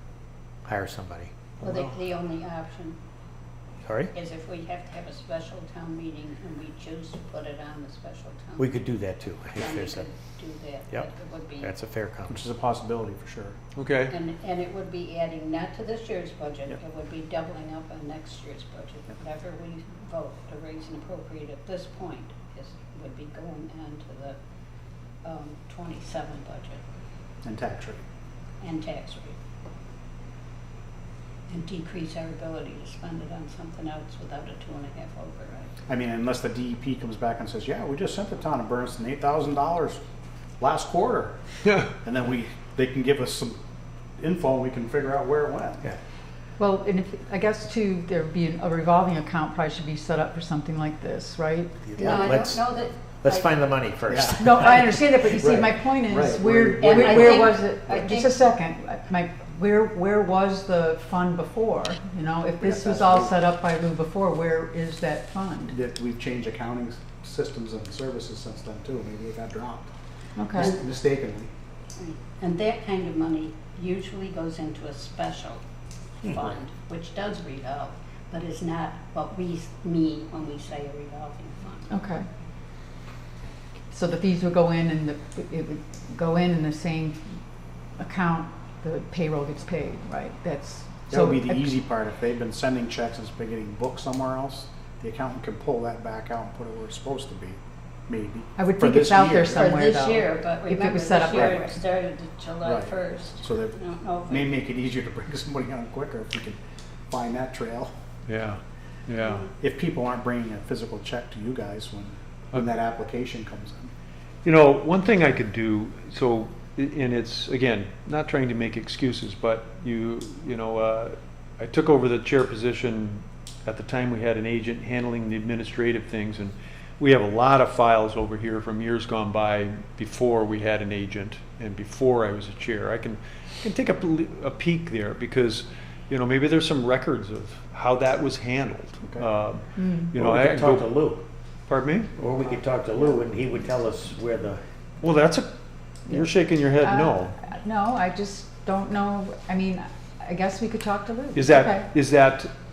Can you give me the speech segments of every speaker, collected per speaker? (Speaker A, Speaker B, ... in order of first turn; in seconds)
Speaker A: 0.7-1.9, 3.9-4.1, 8.6-10.1, 11.6-12.4, 51.8-55.1, 140.1-141.2, 142.2-144.6
Speaker B: 1.6-3.0, 4.1-8.8, 9.6-11.7, 14.1-24.4, 25.2-26.8, 28.6-29.4, 31.5-35.7, 52.0-53.7, 56.8-58.5, 72.0-75.6, 76.2-82.2, 99.5-104.6
Speaker C: 12.3-13.6, 27.4-28.0, 35.9-40.0, 40.6-41.4, 42.0-43.6, 44.2-45.9, 54.1-54.4, 55.3-58.1, 62.6-63.3, 65.7-69.9, 70.5-71.5, 91.1-99.7, 101.3-101.6, 102.6-106.6, 107.1-107.9, 109.6-113.9, 142.4-143.4
Speaker D: 13.8-14.2, 108.3-109.5, 114.4-141.1, 141.7-142.1, 145.0-145.5, 146.1-147.4, 151.3-152.5
Speaker E: 46.6-52.3, 54.4-65.8, 70.4-70.7, 81.9-82.3, 83.9-87.2, 88.0-91.7, 98.6-101.8, 139.8-140.1, 146.1-151.9